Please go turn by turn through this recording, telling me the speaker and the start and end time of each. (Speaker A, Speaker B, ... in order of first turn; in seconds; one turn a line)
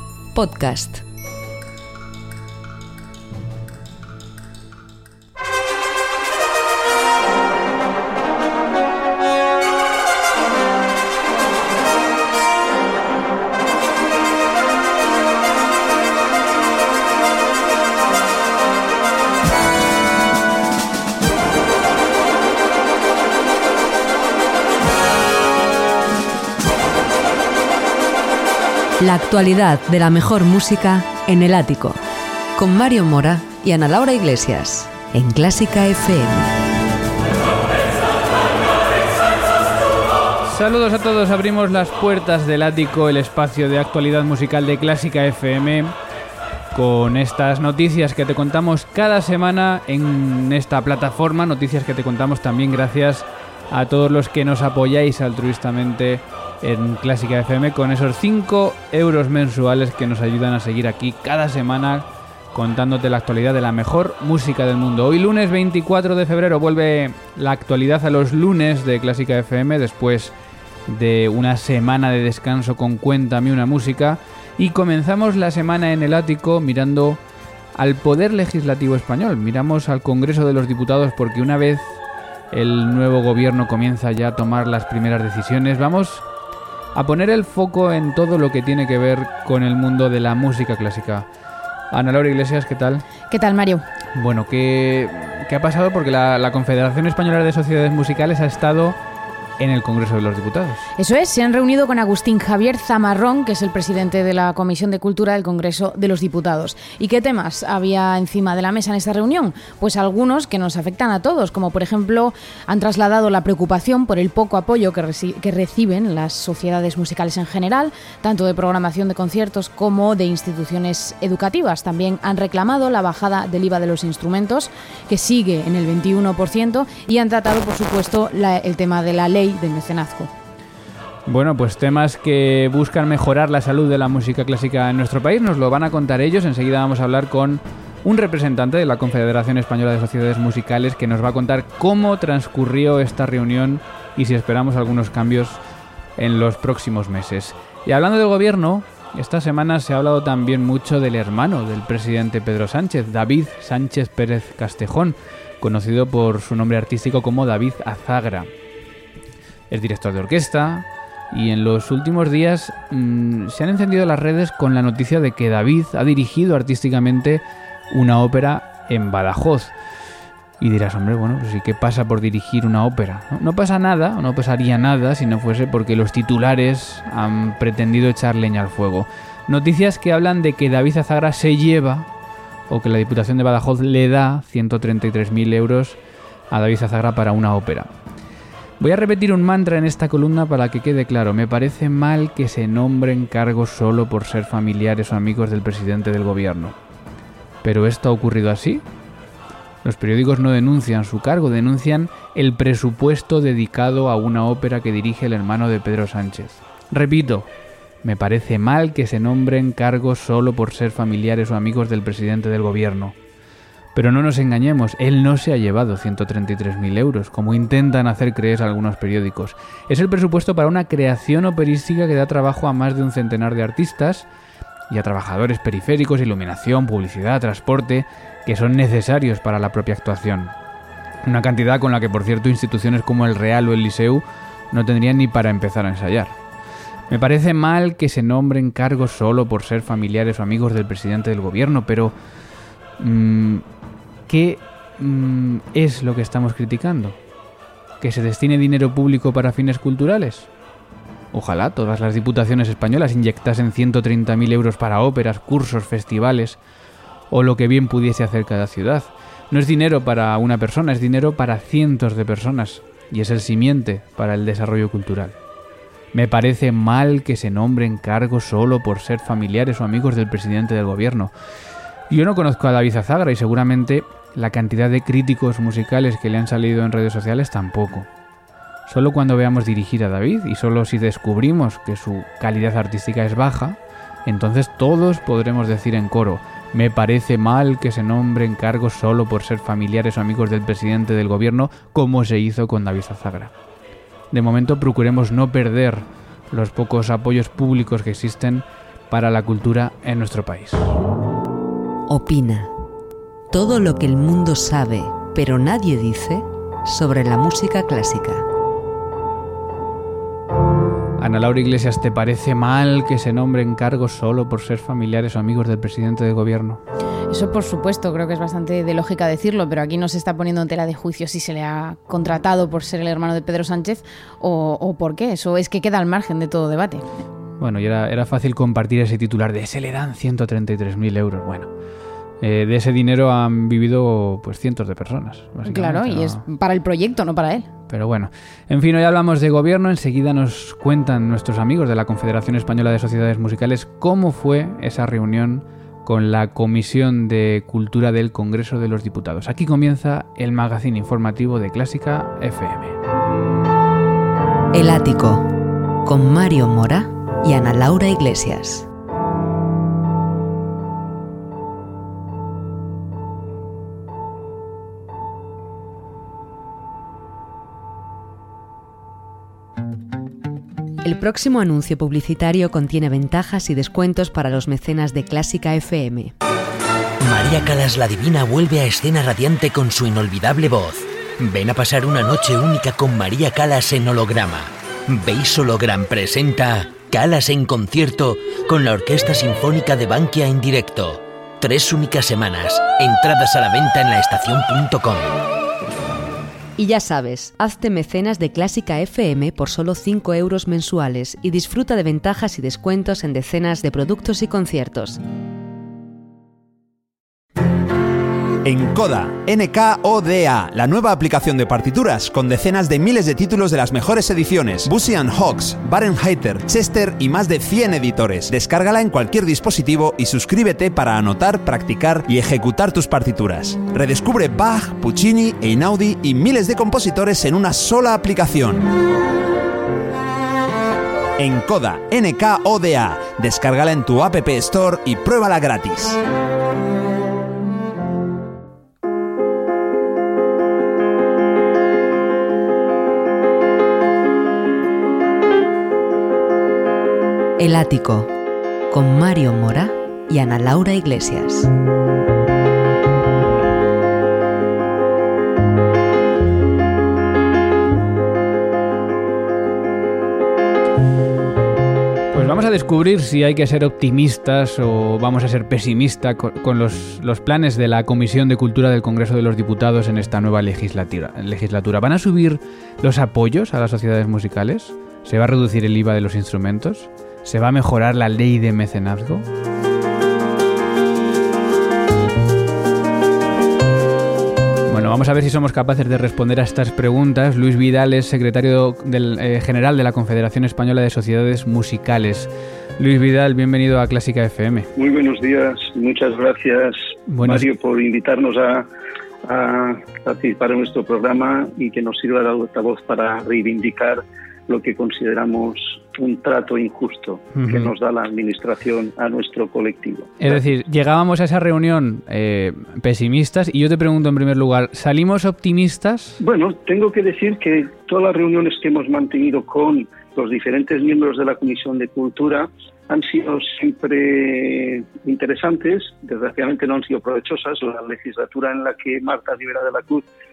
Speaker A: 0.3-1.0
Speaker A: 29.0-32.0
Speaker A: 32.6-36.5
Speaker B: 40.5-45.9
Speaker B: 46.7-70.3
Speaker B: 70.9-77.2
Speaker B: 77.8-82.0
Speaker B: 82.5-86.2
Speaker B: 86.9-91.3
Speaker B: 91.9-93.0
Speaker C: 93.3-93.8
Speaker B: 94.1-99.0
Speaker B: 99.6-100.8
Speaker C: 101.0-130.3
Speaker B: 131.3-145.6
Speaker B: 146.2-158.5
Speaker B: 159.7-169.7
Speaker B: 170.6-182.1
Speaker B: 182.7-186.0
Speaker B: 186.5-187.9
Speaker B: 188.8-196.8
Speaker B: 197.6-198.8
Speaker B: 199.8-207.5
Speaker B: 208.0-213.1
Speaker B: 213.9-224.3
Speaker B: 224.9-230.5
Speaker B: 231.2-236.3
Speaker B: 237.1-242.1
Speaker B: 243.0-243.6
Speaker B: 244.3-247.2
Speaker B: 248.0-250.5
Speaker B: 251.3-256.6
Speaker B: 257.3-265.3
Speaker B: 266.1-271.3
Speaker B: 272.1-278.1
Speaker B: 278.9-293.5
Speaker B: 294.3-300.9
Speaker A: 302.1-302.7
Speaker A: 303.5-308.4
Speaker B: 311.2-316.8
Speaker C: 317.3-327.1
Speaker B: 327.6-331.7
Speaker B: 332.4-336.4
Speaker C: 335.6-337.7
Speaker B: 337.9-353.0
Speaker A: 354.7-355.4
Speaker A: 356.0-358.9
Speaker A: 371.0-376.3
Speaker D: 377.2-395.3
Speaker A: 396.8-405.2
Speaker E: 408.6-428.9
Speaker E: 431.4-436.2
Speaker A: 447.6-448.3
Speaker A: 448.9-451.7
Speaker B: 462.3-479.4
Speaker B: 484.9-494.9
Speaker F: 494.9-498.9
Speaker B: 497.3-497.7
Speaker F: 499.4-510.6
Speaker B: 507.6-507.9
Speaker B: 510.4-516.4
Speaker F: 516.4-530.2